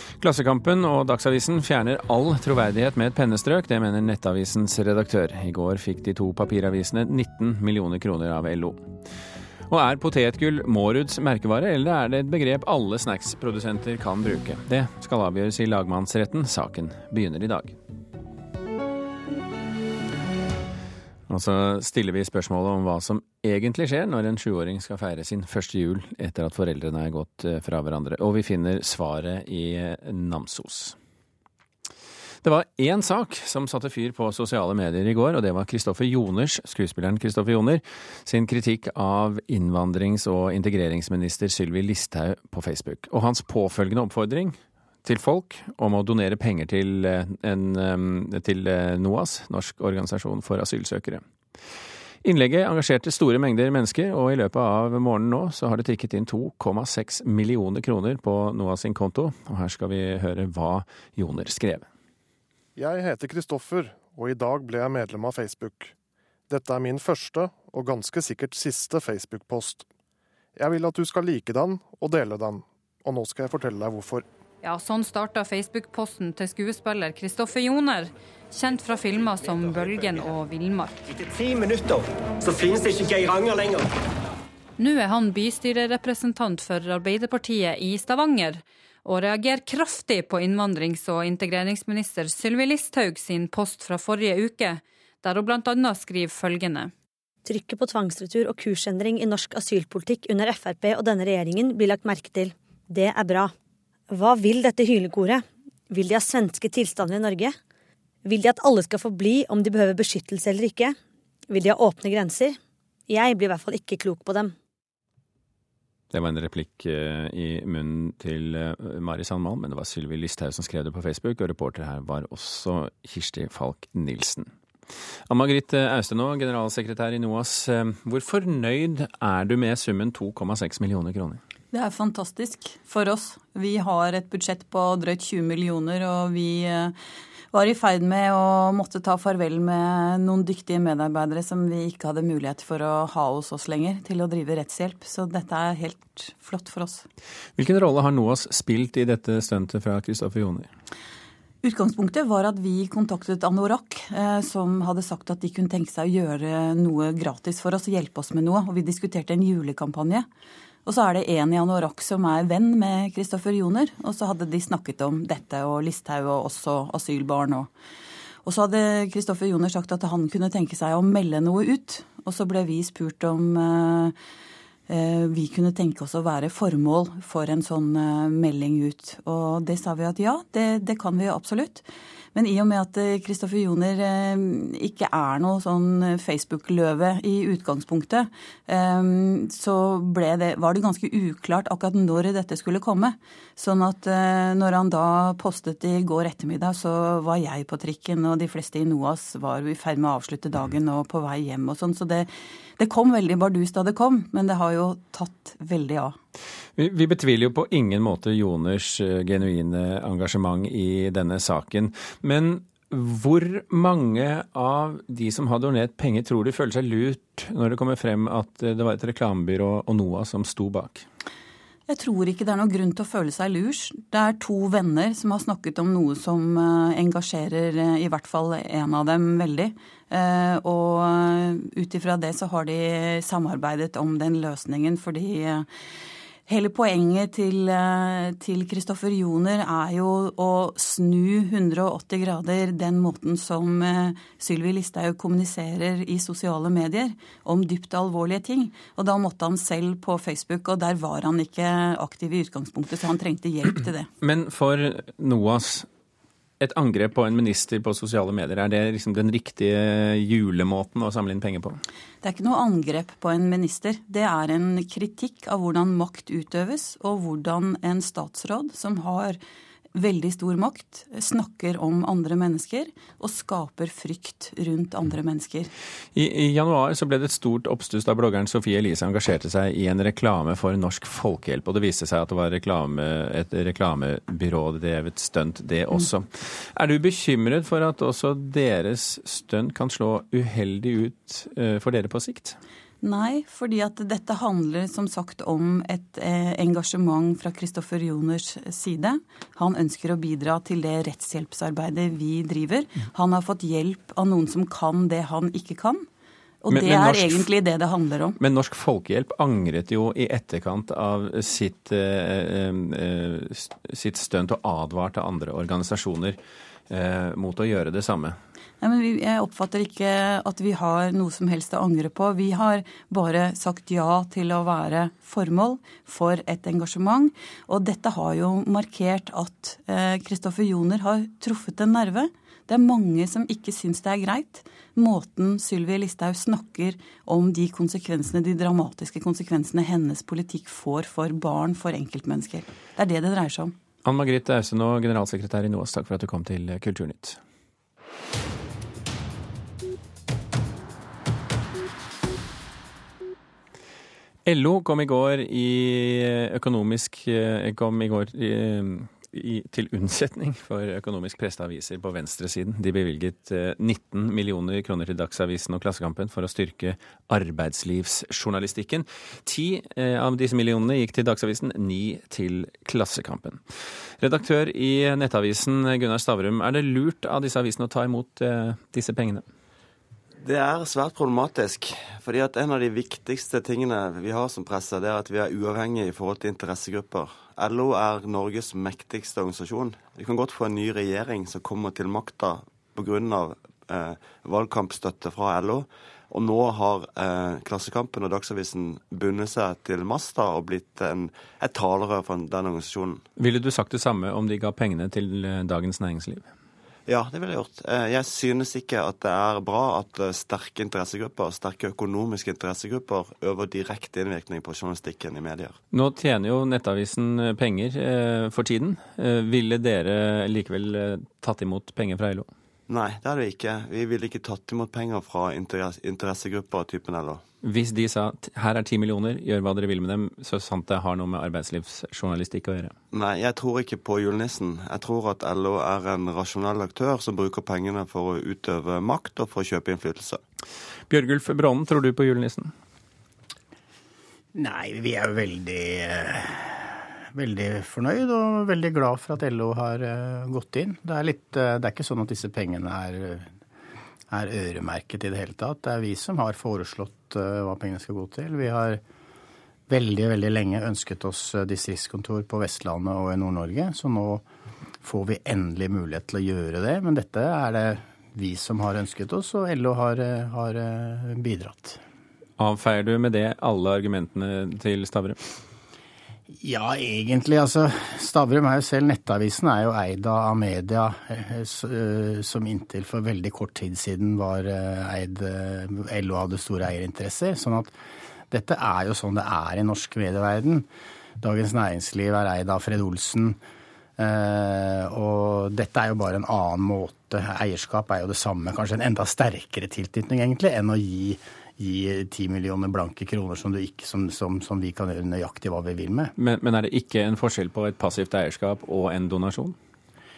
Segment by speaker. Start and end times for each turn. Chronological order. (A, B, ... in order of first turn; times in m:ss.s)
0:00.2-0:08.8 A
0:09.7-0:17.8 A
0:21.3-0:31.0 A
0:32.4-0:51.2 A
0:52.2-1:01.9 A
1:02.8-1:05.9 B
1:06.5-1:09.9 B
1:10.6-1:14.2 B
1:14.6-1:21.0 C
1:21.1-1:23.9 D
1:24.8-1:36.9 C
1:37.4-1:43.5 E
1:44.1-1:47.6 E
1:48.2-1:51.0 E
1:51.5-1:52.6 E
1:53.1-1:54.5 E
1:56.1-2:04.5 A
2:05.3-2:11.4 A
2:11.7-2:17.0 F
2:17.5-2:27.1 F
2:27.6-2:30.7 A
2:31.6-2:40.3 F
2:40.8-2:47.7 F
2:48.4-2:54.2 F
2:54.9-3:26.2 F
3:26.8-3:41.0 A
3:41.9-3:55.7 F
3:56.5-4:14.1 F
4:14.2-4:15.9 A
4:16.6-4:21.8 A
4:22.2-4:29.4 F
4:29.9-4:35.7 F
4:36.1-4:52.6 A
4:53.0-5:06.1 F
5:06.6-5:08.4 F
5:06.7-5:07.5 A
5:08.4-5:16.4 A
5:16.9-5:18.4 A
5:18.8-5:43.7 F
5:44.0-5:47.4 A
5:54.4-6:13.6 A
6:14.2-6:19.4 A
6:20.4-6:43.2 G
6:43.4-6:46.5 A
6:47.1-6:55.8 G
6:55.9-7:02.5 A
7:02.9-7:07.4 G
7:07.6-7:12.9 A
7:13.1-7:20.4 G
7:21.1-7:22.7 A
7:24.5-7:33.5 H
7:34.3-7:39.0 H
7:39.9-7:44.4 H
7:45.0-7:52.0 H
7:52.6-7:55.4 A
7:56.5-8:07.9 H
8:08.5-8:10.9 H
8:11.4-8:13.6 H
8:14.2-8:26.3 H
8:26.4-8:29.8 A